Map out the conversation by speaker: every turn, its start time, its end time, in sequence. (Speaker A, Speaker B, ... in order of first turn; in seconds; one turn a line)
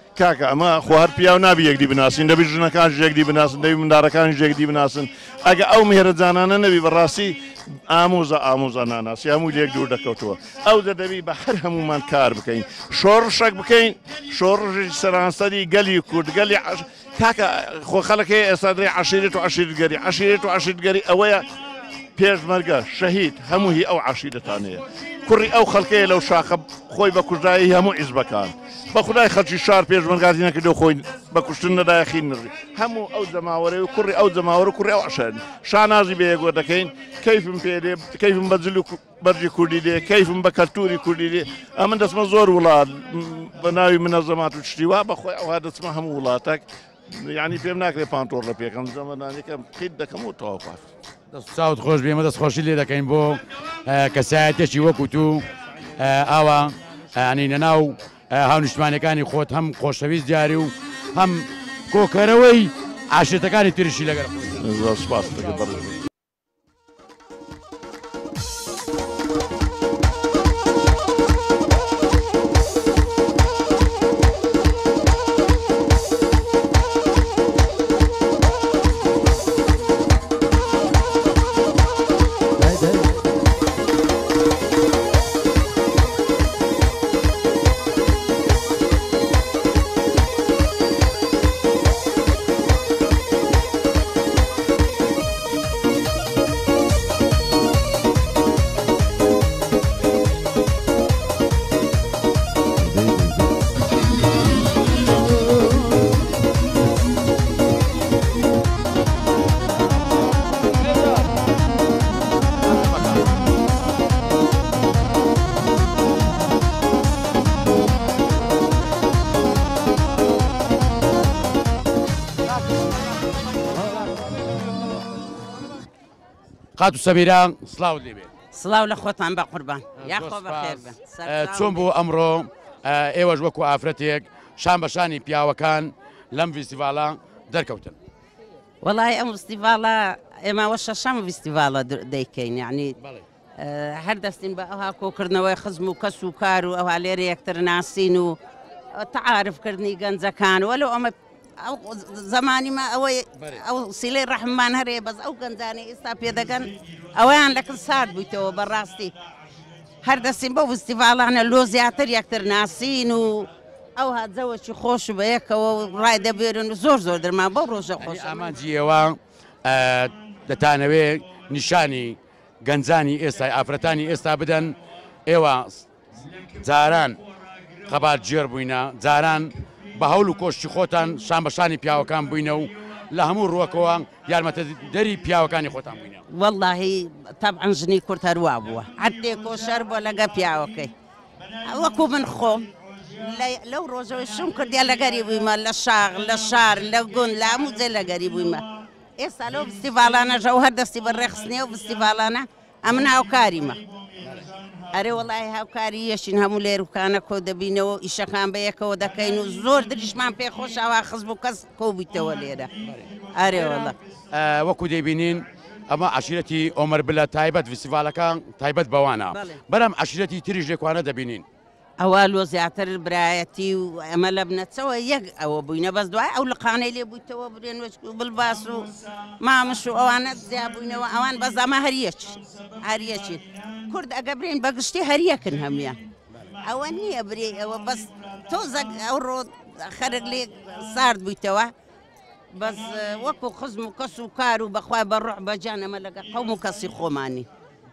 Speaker A: 0.1-21.4
Speaker A: 22.1-50.9
Speaker B: 51.3-55.5
Speaker B: 56.0-65.9
Speaker A: 64.6-65.9
Speaker B: 112.8-113.2
Speaker B: 126.8-128.3
Speaker C: 128.5-131.9
Speaker B: 130.0-138.0
Speaker C: 138.8-142.9
Speaker B: 143.0-143.2
Speaker C: 143.6-148.4
Speaker C: 148.9-159.1
Speaker C: 160.0-168.6
Speaker B: 168.0-175.9
Speaker B: 176.6-177.2
Speaker B: 177.8-186.2
Speaker C: 186.3-190.9
Speaker C: 191.6-198.6
Speaker C: 199.2-203.8
Speaker C: 204.9-212.7
Speaker B: 212.8-213.1
Speaker C: 213.3-213.9
Speaker B: 214.3-221.4
Speaker C: 219.3-219.6
Speaker C: 222.0-236.0
Speaker C: 236.6-241.7
Speaker C: 242.5-247.5